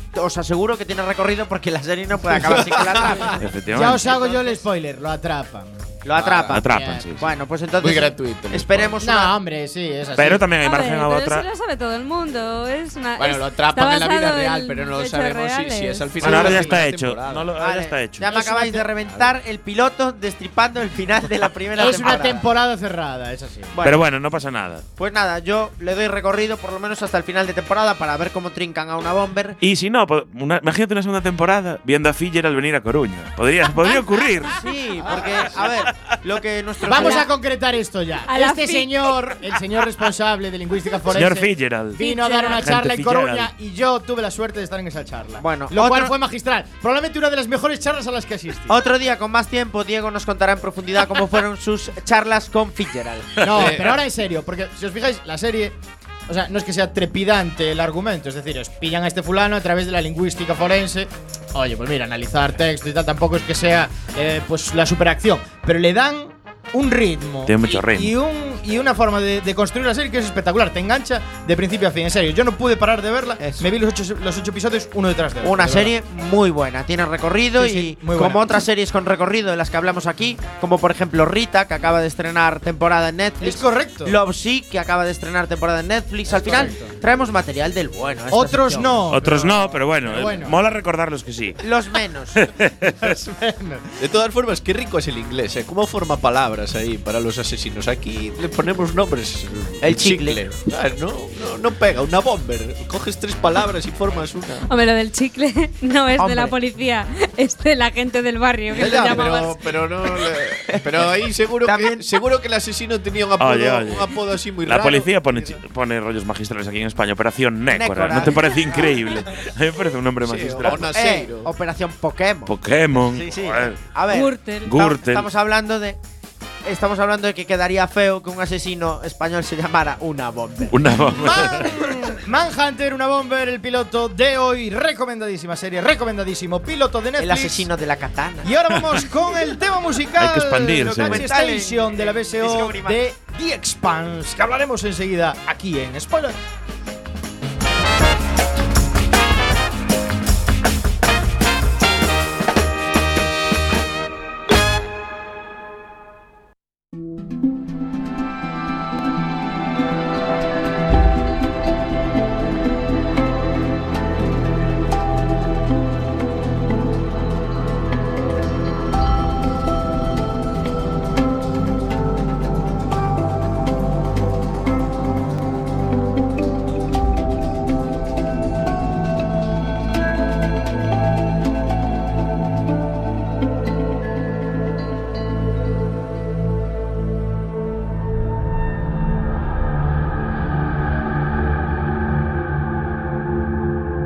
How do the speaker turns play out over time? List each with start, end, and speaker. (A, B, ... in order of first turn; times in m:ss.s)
0:00.1-0:04.6 A
0:02.3-0:03.3 B
0:03.4-0:04.0 C
0:03.7-0:06.0 D
0:06.0-0:09.3 A
0:06.2-0:06.6 B
0:06.5-0:07.2 C
0:06.5-0:07.0 D
0:07.8-0:08.9 B
0:09.0-0:10.4 D
0:10.2-0:11.4 C
0:10.6-0:16.1 E
0:13.2-0:17.6 B
0:16.2-0:16.8 D
0:16.2-0:18.3 C
0:17.6-0:22.5 A
0:19.0-0:19.3 B
0:21.7-0:23.7 D
0:23.7-0:24.1 A
0:23.8-0:24.8 C
0:25.0-0:29.6 A
0:29.6-0:35.6 C
0:34.4-0:37.3 A
0:36.8-0:48.7 D
0:38.3-0:39.1 E
0:41.1-0:43.5 C
0:42.0-0:42.7 E
0:45.4-0:46.1 A
0:48.7-0:53.8 A
0:53.4-0:55.8 D
0:53.5-0:54.0 B
0:56.3-1:15.9 D
1:07.4-1:08.1 C
1:15.4-1:29.1 A
1:17.5-1:18.5 D
1:23.4-1:24.2 D
1:26.3-1:27.0 D
1:28.3-1:30.6 D
1:29.1-1:31.6 C
1:31.6-1:32.5 A
1:32.4-1:33.1 C
1:33.0-1:33.9 D
1:34.0-1:44.7 B
1:39.8-1:40.4 A
1:44.7-1:49.6 E
1:46.2-1:46.5 A
1:48.7-1:55.3 B
1:51.6-1:52.0 A
1:53.4-1:54.1 C
1:54.6-2:00.9 C
1:57.7-1:58.9 A
2:00.2-2:01.5 B
2:00.7-2:06.0 A
2:02.5-2:03.8 C
2:04.1-2:04.7 E
2:04.7-2:05.3 C
2:06.6-2:11.9 A
2:10.7-2:11.7 C
2:11.2-2:17.7 D
2:17.2-2:18.5 A
2:18.4-2:26.4 D
2:20.2-2:21.3 C
2:21.0-2:23.0 A